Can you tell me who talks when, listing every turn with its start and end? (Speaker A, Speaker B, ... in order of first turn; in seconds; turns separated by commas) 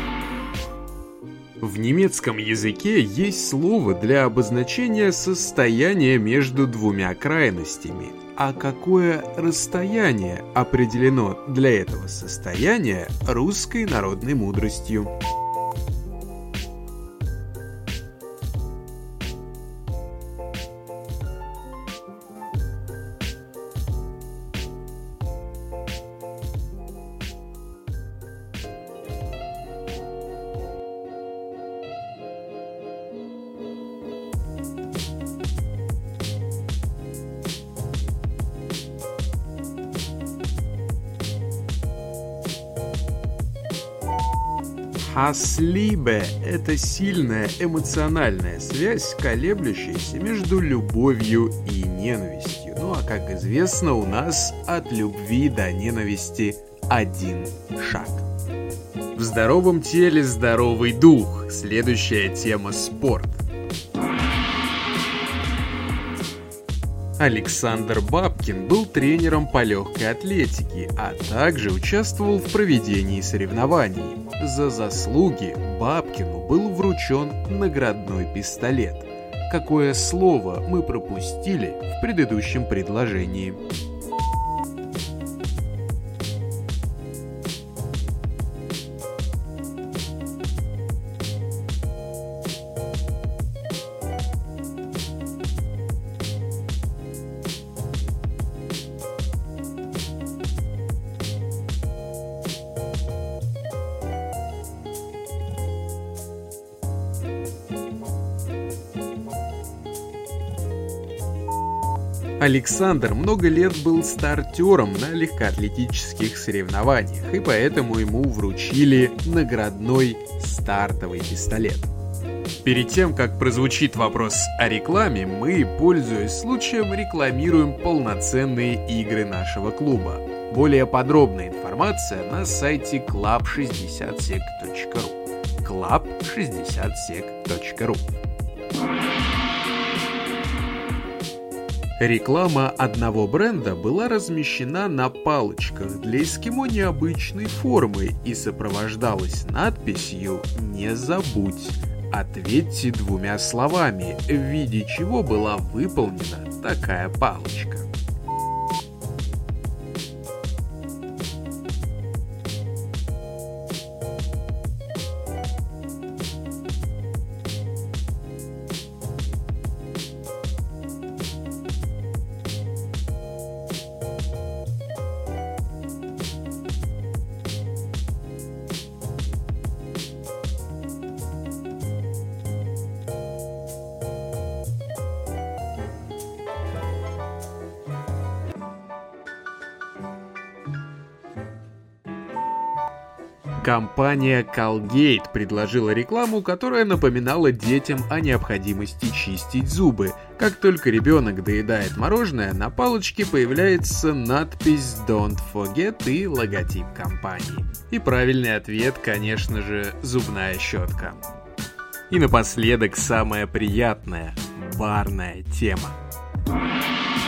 Speaker A: 1.6-15.1, Speaker A: 45.0-58.2, Speaker A: 59.1-63.4, Speaker A: 67.2-83.6, Speaker A: 112.4-121.9, Speaker A: 122.6-138.1, Speaker A: 142.0-157.9, Speaker A: 193.6-211.2, Speaker A: 212.1-216.0